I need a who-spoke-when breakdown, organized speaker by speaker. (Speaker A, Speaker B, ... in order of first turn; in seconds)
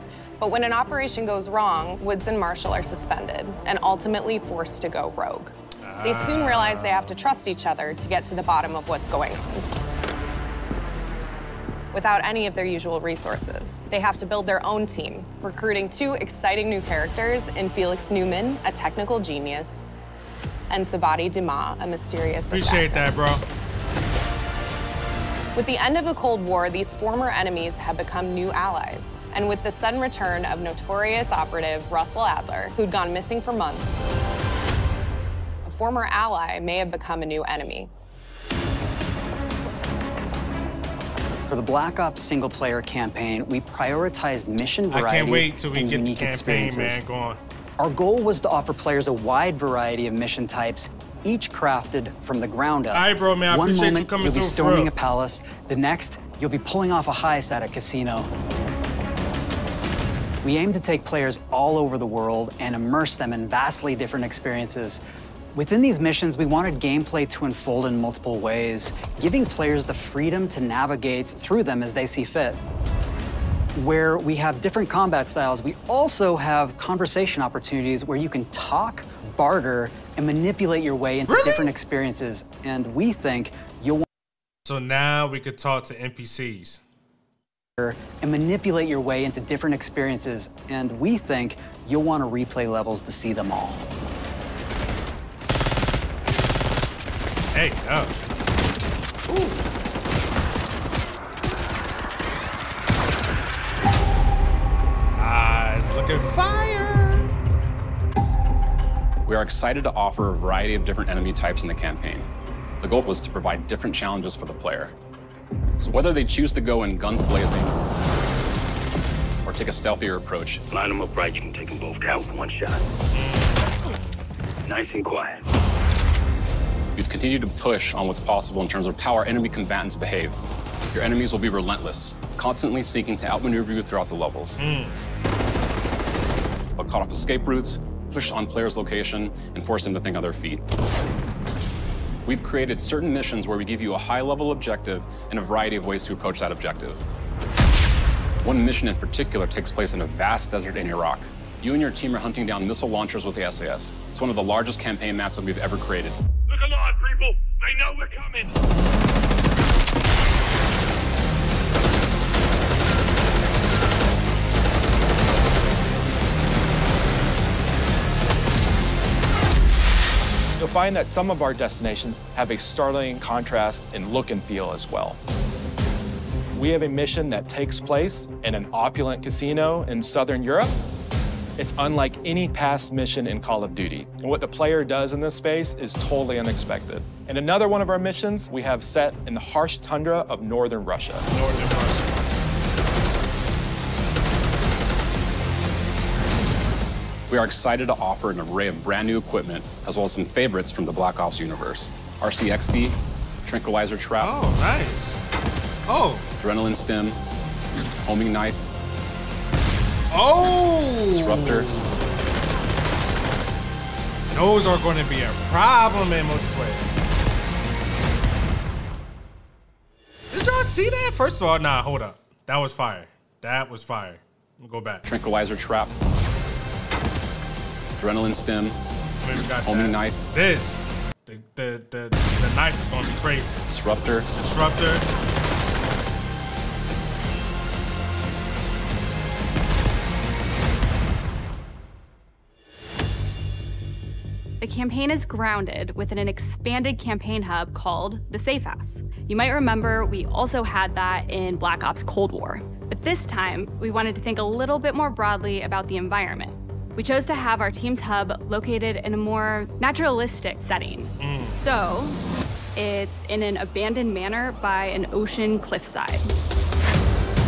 Speaker A: 0.4-9.7, 11.9-19.8, 20.7-23.1, 25.6-34.1, 35.6-37.9
Speaker B: 5.8-7.1, 22.5-23.4, 44.9-47.4, 52.9-54.9, 81.3-81.8, 84.7-86.8, 97.5-98.1, 99.3-99.6, 105.2-107.3, 123.1-124.0, 134.6-135.0, 191.3-192.3, 204.2-205.2, 205.9-206.3, 210.1-211.8, 214.3-216.8, 220.3-225.0, 229.2-233.7, 234.3-235.1, 261.2-261.6
Speaker C: 41.5-47.0, 47.8-58.3, 60.4-65.0, 65.5-72.6, 73.8-84.1, 87.8-93.9
Speaker D: 109.2-112.3, 112.8-114.9, 115.8-117.8, 119.5-120.6, 127.0-130.4, 130.9-134.6, 136.8-140.6, 142.3-147.0, 148.4-156.2, 197.3-204.3, 206.4-207.2, 208.0-208.7, 211.1-211.7, 225.1-225.9, 228.0-228.8, 229.6-230.2, 233.7-234.3
Speaker E: 120.7-122.8, 124.7-125.4
Speaker F: 170.6-175.2, 176.5-180.8, 181.6-191.3
Speaker G: 244.6-262.2, 262.8-266.3